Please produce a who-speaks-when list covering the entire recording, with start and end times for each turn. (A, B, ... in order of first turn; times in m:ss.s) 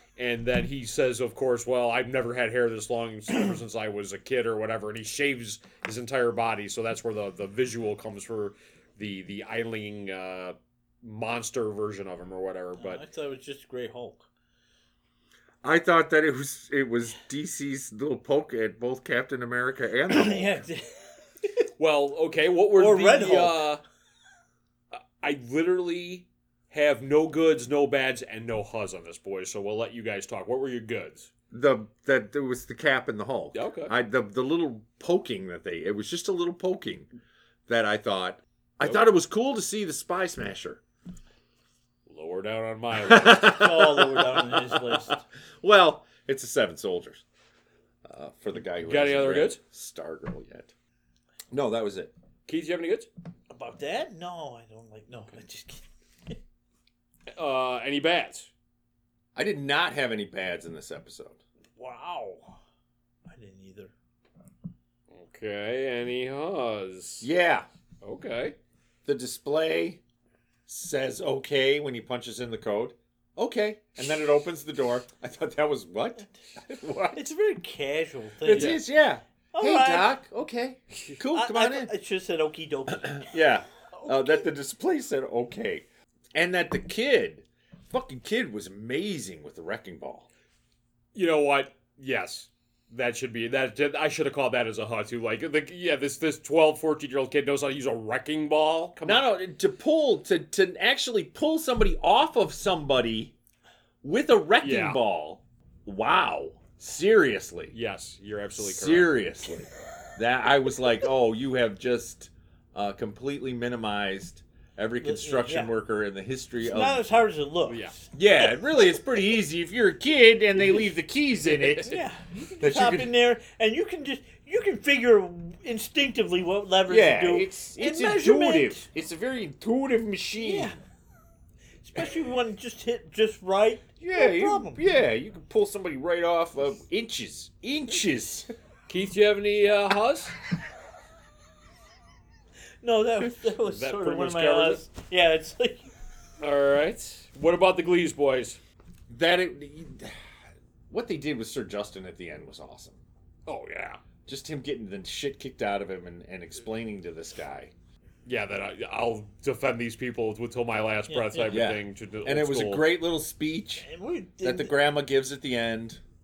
0:00.2-0:13.0 A
0:12.8-0:14.2 B
0:15.6-0:20.6 C
0:20.1-0:21.0 B
0:21.8-0:23.8 A
0:22.8-0:23.6 B
0:24.9-0:31.3 A
0:31.5-0:37.1 C
0:33.5-0:33.9 A
0:37.7-0:40.8 C
0:38.8-0:39.1 A
0:42.1-0:43.9 A
0:43.0-0:47.2 C
0:43.3-0:45.2 B
0:48.0-0:50.7 C
0:48.8-0:49.6 A
0:51.5-0:52.1 C
0:52.5-0:53.1 A
0:53.5-0:56.4 B
0:57.4-0:58.5 A
0:59.4-1:01.4 C
1:01.8-1:02.6 B
1:03.3-1:03.9 B
1:05.1-1:07.3 A
1:07.2-1:07.7 C
1:08.0-1:08.6 A
1:09.0-1:10.0 C
1:10.7-1:17.3 C
1:17.2-1:18.8 B
1:18.4-1:21.9 C
1:18.5-1:18.8 A
1:19.5-1:20.2 B
1:21.3-1:23.4 B
1:23.0-1:30.3 C
1:23.9-1:24.4 B
1:31.2-1:39.3 A
1:39.0-1:43.4 C
1:44.0-1:47.7 C
1:44.6-1:45.0 A
1:47.7-1:49.2 A
1:48.6-1:57.1 C
1:55.0-1:55.7 B
1:56.6-1:58.1 B
1:57.7-1:58.0 A
1:58.1-2:03.2 C
2:01.5-2:01.8 A
2:01.8-2:08.9 B
2:06.9-2:10.8 C
2:10.4-2:10.8 B
2:11.8-2:14.8 B
2:14.0-2:18.5 C
2:18.9-2:20.4 A
2:22.8-2:25.9 B
2:23.6-2:24.8 A
2:26.4-2:28.6 A
2:29.1-2:30.1 C
2:30.9-2:33.0 C
2:33.5-2:34.0 A
2:34.3-2:37.7 C
2:38.2-2:43.0 A
2:41.1-2:41.7 B
2:41.5-2:43.9 C
2:43.8-2:44.7 B
2:44.4-2:46.0 C